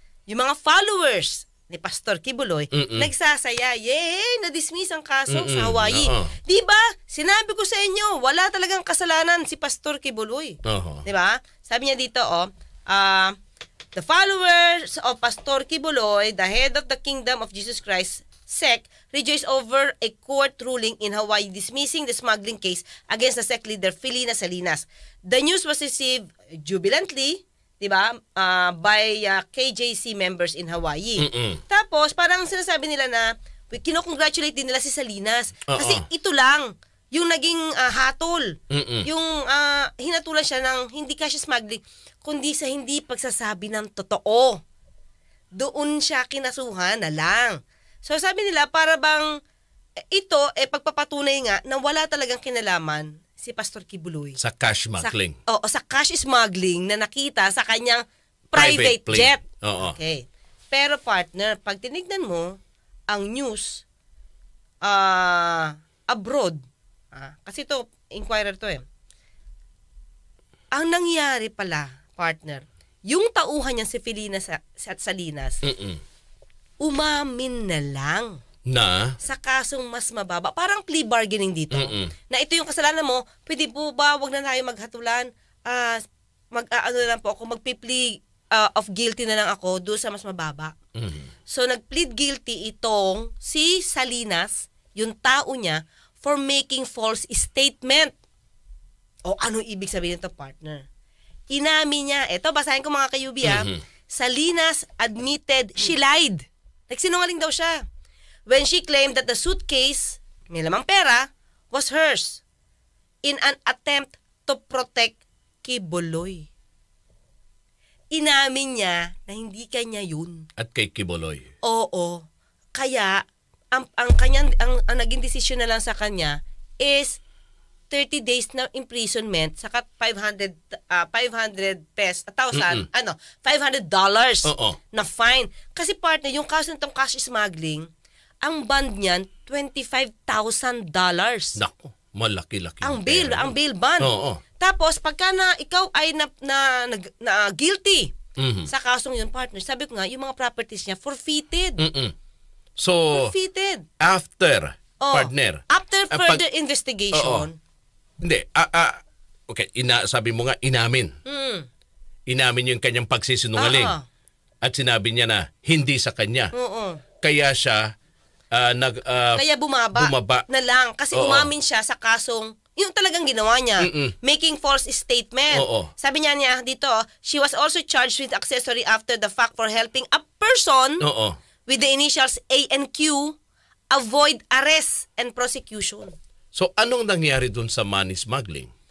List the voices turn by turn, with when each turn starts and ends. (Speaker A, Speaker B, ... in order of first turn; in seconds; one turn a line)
Speaker A: 0.3-13.3
Speaker B: 2.7-3.1
Speaker B: 5.3-6.3
Speaker B: 10.7-11.1
Speaker A: 13.9-44.6
Speaker B: 31.2-31.6
Speaker B: 35.7-36.1
Speaker B: 38.7-39.1
Speaker A: 45.5-49.4
Speaker A: 50.1-54.4
Speaker B: 54.4-55.4
Speaker A: 55.0-63.8
Speaker B: 58.5-60.0
Speaker A: 64.8-68.8
Speaker A: 70.7-75.6
Speaker B: 75.6-76.0
Speaker A: 76.8-78.4
Speaker B: 78.7-79.2
Speaker A: 79.2-90.8
Speaker B: 81.7-82.1
Speaker B: 91.0-91.3
Speaker A: 91.5-98.1
Speaker A: 99.2-100.8
Speaker A: 101.5-107.8
Speaker B: 103.4-103.7
Speaker A: 108.5-112.4
Speaker A: 113.2-116.5
Speaker A: 118.1-120.5
Speaker B: 120.6-121.5
Speaker A: 121.6-127.2
Speaker A: 127.9-137.9
Speaker B: 132.5-132.9
Speaker B: 134.4-134.8
Speaker A: 138.4-141.6
Speaker B: 141.6-144.4
Speaker A: 142.8-148.2
Speaker B: 148.4-148.7
Speaker A: 148.7-151.8
Speaker B: 151.8-152.1
Speaker B: 152.8-153.3
Speaker A: 153.1-153.9
Speaker B: 154.0-156.4
Speaker A: 155.0-157.6
Speaker B: 157.1-157.5
Speaker B: 158.2-161.1
Speaker A: 161.2-161.7
Speaker B: 162.3-164.0
Speaker A: 163.6-164.1
Speaker B: 164.6-166.5
Speaker A: 166.5-167.0
Speaker B: 167.2-167.9
Speaker B: 168.5-170.4
Speaker A: 169.3-181.1
Speaker B: 171.1-171.5
Speaker B: 173.8-174.1
Speaker B: 175.5-175.9
Speaker B: 181.0-181.4
Speaker A: 181.7-183.4
Speaker A: 183.9-186.2
Speaker B: 186.5-188.7